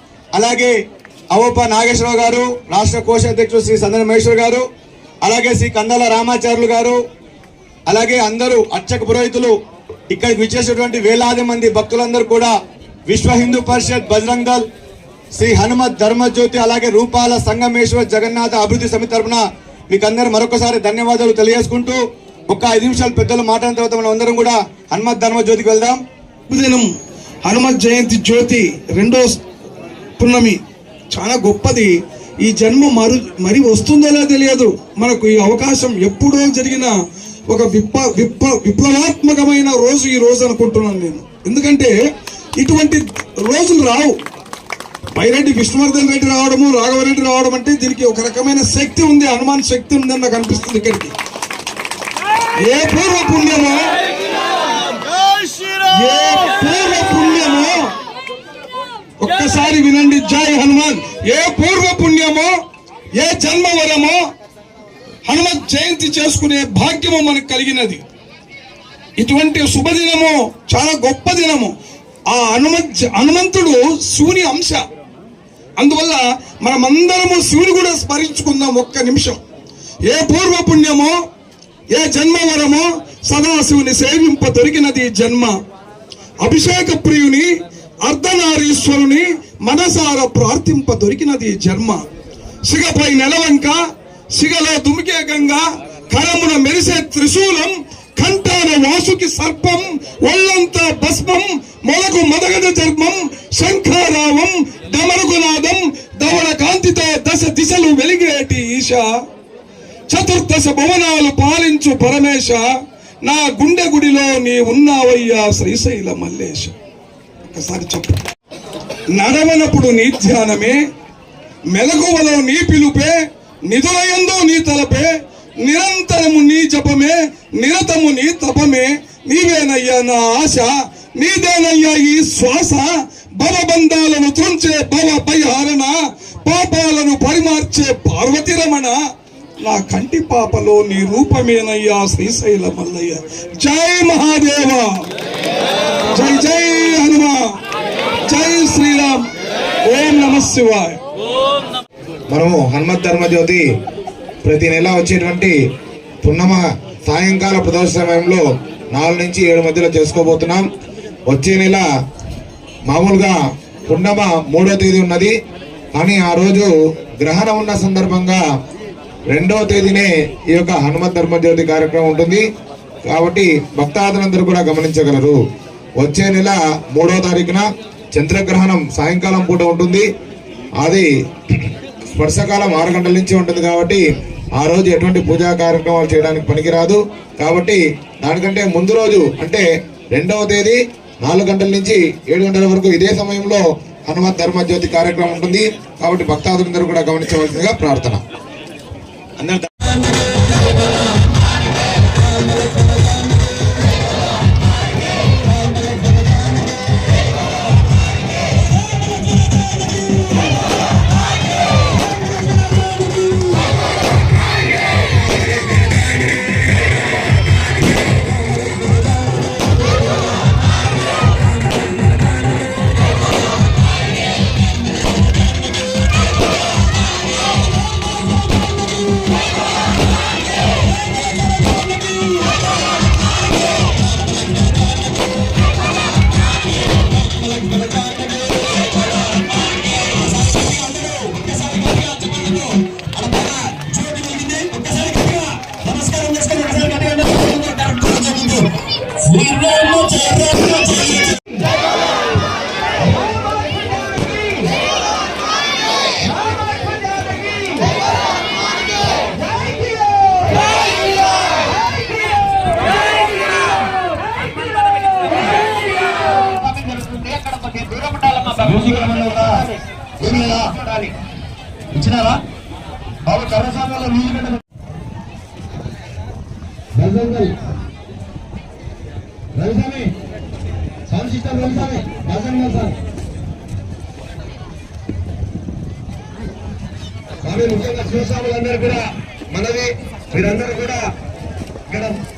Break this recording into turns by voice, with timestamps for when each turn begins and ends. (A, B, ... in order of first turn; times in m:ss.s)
0:00.3-0:00.7 A
0:01.3-0:04.6 A
0:05.2-0:07.0 A
0:07.9-0:09.5 A
0:10.1-0:12.5 A
0:13.1-0:14.6 A
0:15.4-0:26.0 A
0:26.5-0:26.9 B
0:27.4-0:29.4 B
0:30.2-0:30.6 B
0:31.1-0:36.9 B
0:37.5-0:41.9 B
0:42.6-0:44.2 B
0:45.1-0:51.1 B
0:52.6-0:53.9 B
0:55.9-0:57.9 B
0:59.2-1:02.5 B
1:03.1-1:04.2 B
1:05.2-1:08.0 B
1:09.2-1:11.7 B
1:12.3-1:14.8 B
1:15.8-1:19.4 B
1:20.0-1:21.2 B
1:21.9-1:25.6 B
1:26.4-1:27.5 B
1:28.0-1:32.0 B
1:32.7-1:33.8 B
1:34.3-1:49.1 B
1:50.1-1:52.7 B
1:53.2-1:56.7 B
1:57.5-1:58.2 B
1:59.1-2:00.8 B
2:01.7-2:05.1 B
2:05.6-2:19.0 B
2:19.6-2:25.0 B
2:26.1-2:27.5 B
2:28.3-2:29.2 B
2:29.9-2:31.0 B
2:32.3-2:33.6 C
2:34.4-2:35.6 C
2:36.2-2:40.6 C
2:41.3-2:41.8 C
2:42.9-2:45.3 C
2:45.9-2:48.4 C
2:49.3-2:52.4 C
2:53.1-2:55.4 C
2:56.0-3:00.1 C
3:00.8-3:18.2 C
3:57.7-3:58.1 C
4:00.5-4:02.5 C
4:03.2-4:08.6 C
4:09.2-4:10.7 C
4:26.6-4:28.9 C
4:27.0-4:27.3 D
4:27.9-4:29.6 D
4:30.2-4:30.8 D
4:32.1-4:32.4 D
4:33.3-4:34.4 C
4:33.4-4:34.3 D
4:39.6-4:40.0 C
4:41.1-4:41.5 C
4:41.5-4:42.2 D
4:42.1-4:42.9 C
4:47.5-4:48.8 D
4:47.6-4:49.0 C
4:49.5-4:51.0 C